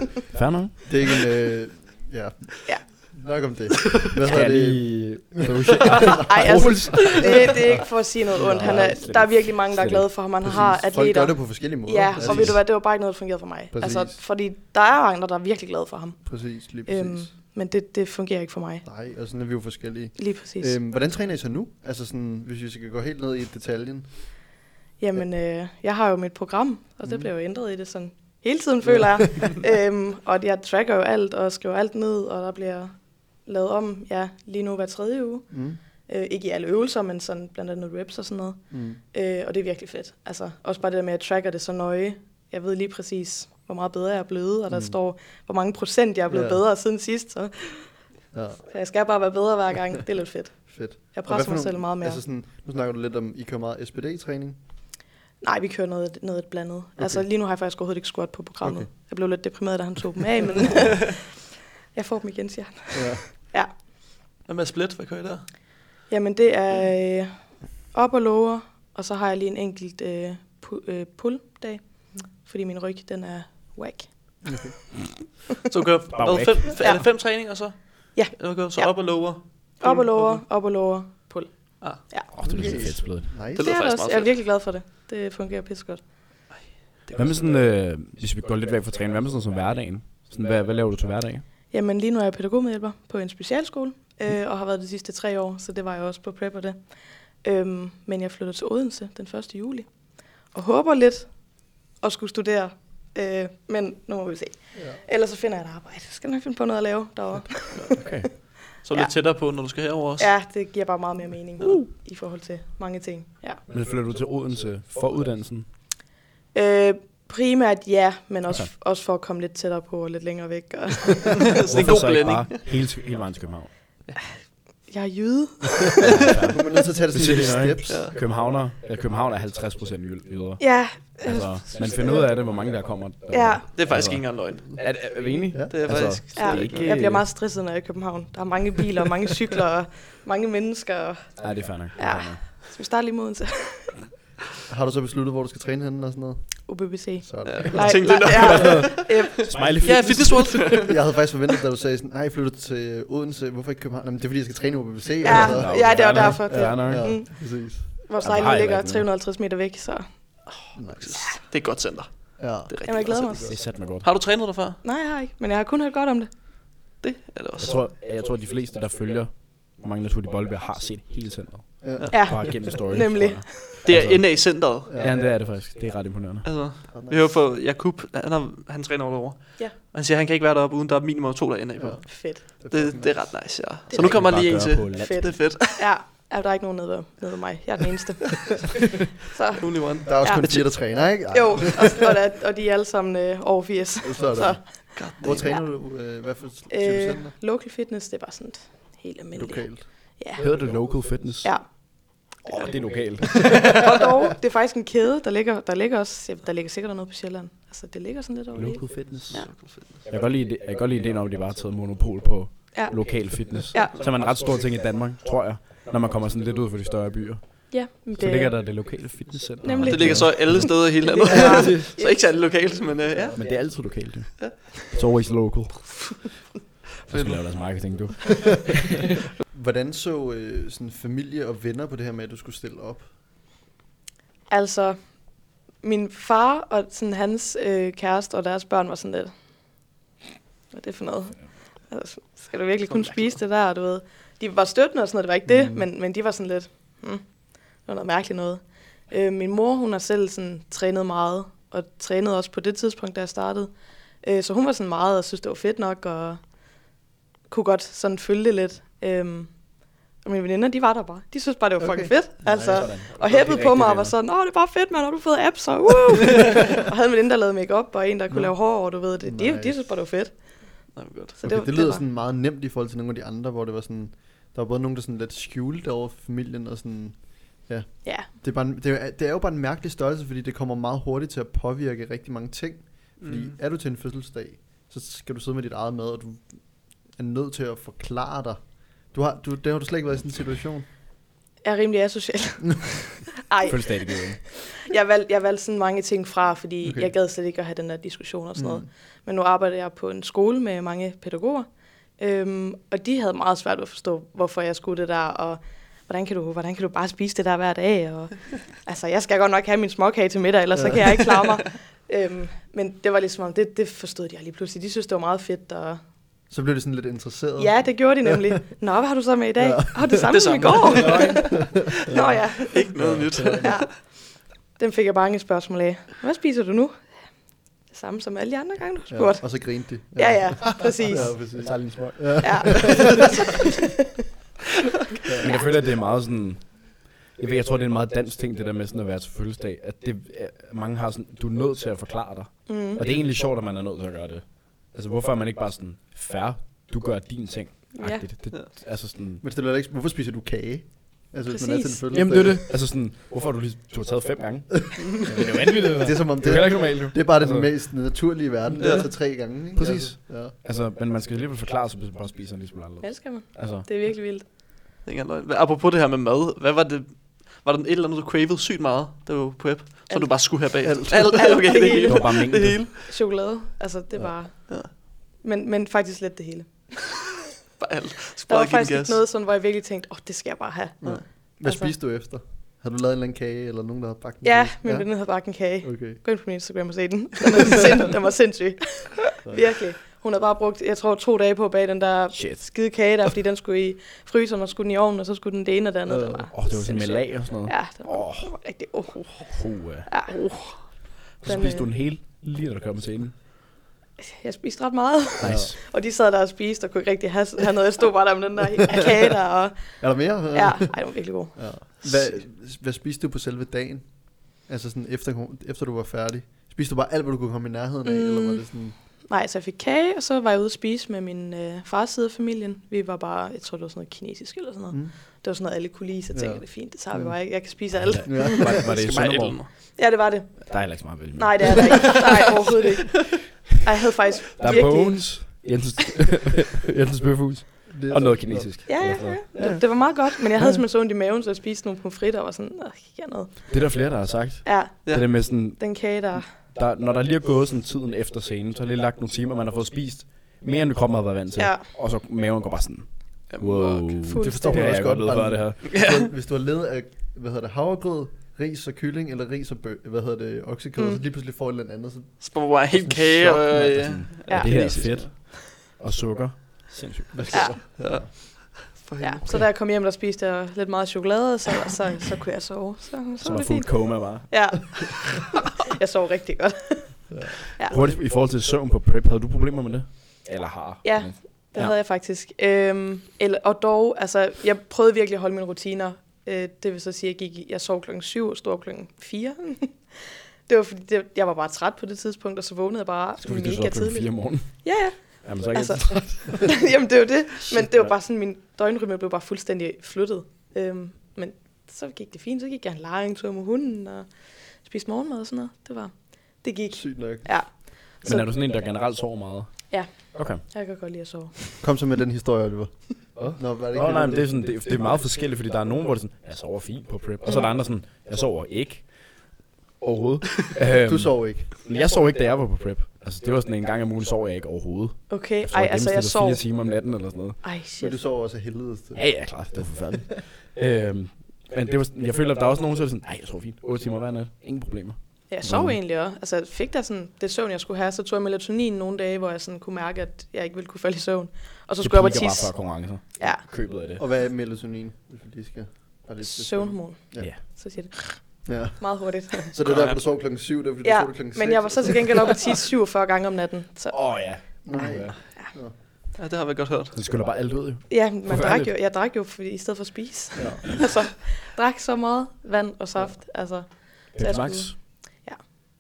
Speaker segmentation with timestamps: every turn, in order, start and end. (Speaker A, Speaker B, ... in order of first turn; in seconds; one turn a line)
Speaker A: 0.3-0.9
Speaker B: 0.9-7.8
Speaker A: 4.3-10.1
Speaker C: 6.2-18.9
Speaker B: 8.3-9.1
Speaker B: 10.4-12.7
Speaker A: 12.2-12.5
Speaker B: 13.7-14.2
Speaker B: 16.2-17.3
Speaker B: 18.8-24.5
Speaker C: 20.2-20.8
Speaker C: 25.0-48.1
Speaker B: 27.0-27.3
Speaker B: 28.8-29.5
Speaker B: 35.5-35.8
Speaker B: 38.7-39.0
Speaker B: 44.7-45.0
Speaker B: 46.3-46.6
Speaker B: 48.3-48.7
Speaker C: 48.7-52.2
Speaker B: 50.7-54.6
Speaker C: 55.4-61.3
Speaker B: 57.0-57.2
Speaker B: 58.6-58.9
Speaker C: 61.9-63.7
Speaker B: 62.9-63.2
Speaker D: 64.5-65.5
Speaker C: 66.1-74.5
Speaker B: 74.4-74.8
Speaker D: 75.7-80.4
Speaker A: 76.1-76.8
Speaker C: 76.8-82.3
Speaker A: 82.3-83.3
Speaker B: 82.4-83.7
Speaker D: 83.5-84.4
Speaker C: 83.6-86.0
Speaker D: 86.5-87.6
Speaker A: 87.1-91.4
Speaker C: 91.7-96.8
Speaker C: 97.4-100.0
Speaker C: 100.5-108.2
Speaker B: 104.8-105.0
Speaker A: 108.0-108.5
Speaker D: 108.8-110.3
Speaker C: 110.2-113.6
Speaker A: 113.7-115.7
Speaker C: 116.5-121.5
Speaker D: 121.5-122.6
Speaker A: 121.7-123.8
Speaker C: 124.9-126.1
Speaker A: 126.0-137.3
Speaker B: 126.5-128.1
Speaker D: 127.9-128.2
Speaker C: 130.6-132.3
Speaker C: 133.3-133.7
Speaker D: 133.7-136.9
Speaker B: 135.5-136.1
Speaker C: 136.3-144.0
Speaker A: 141.4-142.5
Speaker B: 144.7-148.3
Speaker C: 146.7-149.6
Speaker D: 147.5-151.3
Speaker A: 148.2-150.9
Speaker B: 150.9-157.9
Speaker C: 155.2-160.4
Speaker A: 155.3-157.3
Speaker A: 158.2-159.1
Speaker D: 160.5-164.8
Speaker B: 160.8-161.3
Speaker B: 162.4-163.6
Speaker C: 162.8-163.5
Speaker A: 163.4-164.1
Speaker C: 164.8-166.3
Speaker D: 167.0-167.8
Speaker A: 167.6-176.8
Speaker B: 171.8-172.6
Speaker C: 172.1-173.7
Speaker D: 173.8-174.9
Speaker B: 174.9-175.2
Speaker D: 176.4-185.8
Speaker B: 176.9-177.3
Speaker B: 181.8-183.5
Speaker C: 182.1-182.4
Speaker C: 183.9-195.8
Speaker A: 183.9-185.4
Speaker D: 189.6-190.8
Speaker B: 190.1-192.0
Speaker B: 194.0-197.3
Speaker D: 194.9-195.5
Speaker C: 196.7-200.9
Speaker B: 199.3-199.9
Speaker A: 200.4-201.9
Speaker C: 201.4-202.4
Speaker A: 202.4-203.9
Speaker C: 203.6-209.5
Speaker A: 208.5-221.9
Speaker D: 209.3-210.1
Speaker C: 212.7-214.0
Speaker C: 217.7-218.8
Speaker C: 219.6-222.3
Speaker D: 219.8-223.5
Speaker B: 223.2-223.4
Speaker A: 223.3-226.4
Speaker A: 227.1-228.9
Speaker D: 227.1-227.4
Speaker B: 229.5-233.1
Speaker C: 234.5-235.2
Speaker C: 235.8-239.3
Speaker C: 240.7-256.5
Speaker B: 245.5-245.8
Speaker C: 257.5-272.0
Speaker B: 261.8-262.7
Speaker A: 262.4-264.2
Speaker B: 268.3-270.0
Speaker D: 270.9-271.4
Speaker B: 271.4-290.9
Speaker D: 283.2-283.6
Speaker C: 291.6-316.0
Speaker A: 293.7-294.5
Speaker B: 296.8-297.1
Speaker B: 298.6-298.9
Speaker B: 310.8-311.2
Speaker B: 316.5-318.3
Speaker C: 317.6-327.1
Speaker B: 319.6-320.6
Speaker D: 320.3-321.5
Speaker A: 320.8-323.7
Speaker B: 321.6-322.0
Speaker D: 322.7-323.9
Speaker B: 323.0-323.8
Speaker C: 327.9-331.6
Speaker B: 329.1-333.3
Speaker A: 331.0-333.1
Speaker C: 332.4-333.4
Speaker A: 335.4-349.4
Speaker C: 342.7-343.0
Speaker C: 347.9-348.3
Speaker B: 349.4-352.6
Speaker C: 351.5-352.1
Speaker A: 352.1-357.9
Speaker B: 356.0-360.5
Speaker A: 358.7-364.1
Speaker D: 358.8-359.1
Speaker C: 363.0-364.5
Speaker D: 365.0-372.9
Speaker C: 370.1-377.3
Speaker B: 370.8-371.5
Speaker A: 372.0-372.8
Speaker D: 377.8-379.2
Speaker C: 378.5-381.9
Speaker B: 381.0-385.3
Speaker C: 384.4-401.9
Speaker B: 385.8-386.2
Speaker A: 392.3-392.9
Speaker B: 396.1-396.5
Speaker A: 396.5-400.1
Speaker A: 401.4-403.4
Speaker C: 404.2-411.6
Speaker A: 405.4-405.8
Speaker B: 405.4-405.7
Speaker B: 410.0-418.9
Speaker C: 418.0-428.8
Speaker B: 426.3-428.9
Speaker A: 427.9-429.9
Speaker D: 428.6-429.7
Speaker C: 429.9-435.5
Speaker A: 430.7-432.2
Speaker A: 434.6-440.1
Speaker B: 437.9-439.6
Speaker C: 438.9-443.9
Speaker A: 443.7-455.8
Speaker C: 444.6-446.5
Speaker C: 451.6-451.9
Speaker D: 453.5-454.2
Speaker C: 454.2-455.0
Speaker B: 454.4-464.2
Speaker D: 455.8-456.3
Speaker C: 461.0-461.2
Speaker D: 462.4-465.3
Speaker A: 463.7-467.8
Speaker C: 464.5-464.9
Speaker B: 467.3-468.3
Speaker C: 467.5-467.8
Speaker D: 468.0-469.4
Speaker C: 469.2-478.0
Speaker A: 473.4-475.0
Speaker B: 477.3-477.6
Speaker A: 477.8-481.9
Speaker C: 481.0-508.5
Speaker A: 493.4-496.8
Speaker B: 506.9-507.5
Speaker A: 508.2-510.6
Speaker C: 509.9-511.8
Speaker B: 511.8-514.5
Speaker A: 513.4-527.7
Speaker C: 517.5-517.7
Speaker B: 521.0-521.7
Speaker C: 525.3-526.6
Speaker C: 527.6-528.2
Speaker B: 528.0-530.2
Speaker A: 529.2-536.0
Speaker C: 535.5-543.6
Speaker A: 542.0-544.2
Speaker B: 544.0-547.5
Speaker C: 546.4-549.7
Speaker B: 548.6-552.6
Speaker D: 549.9-550.2
Speaker C: 551.0-554.8
Speaker A: 554.1-555.4
Speaker B: 554.9-556.0
Speaker D: 556.4-557.1
Speaker A: 557.1-558.9
Speaker C: 558.1-565.6
Speaker B: 560.5-560.8
Speaker A: 564.3-565.0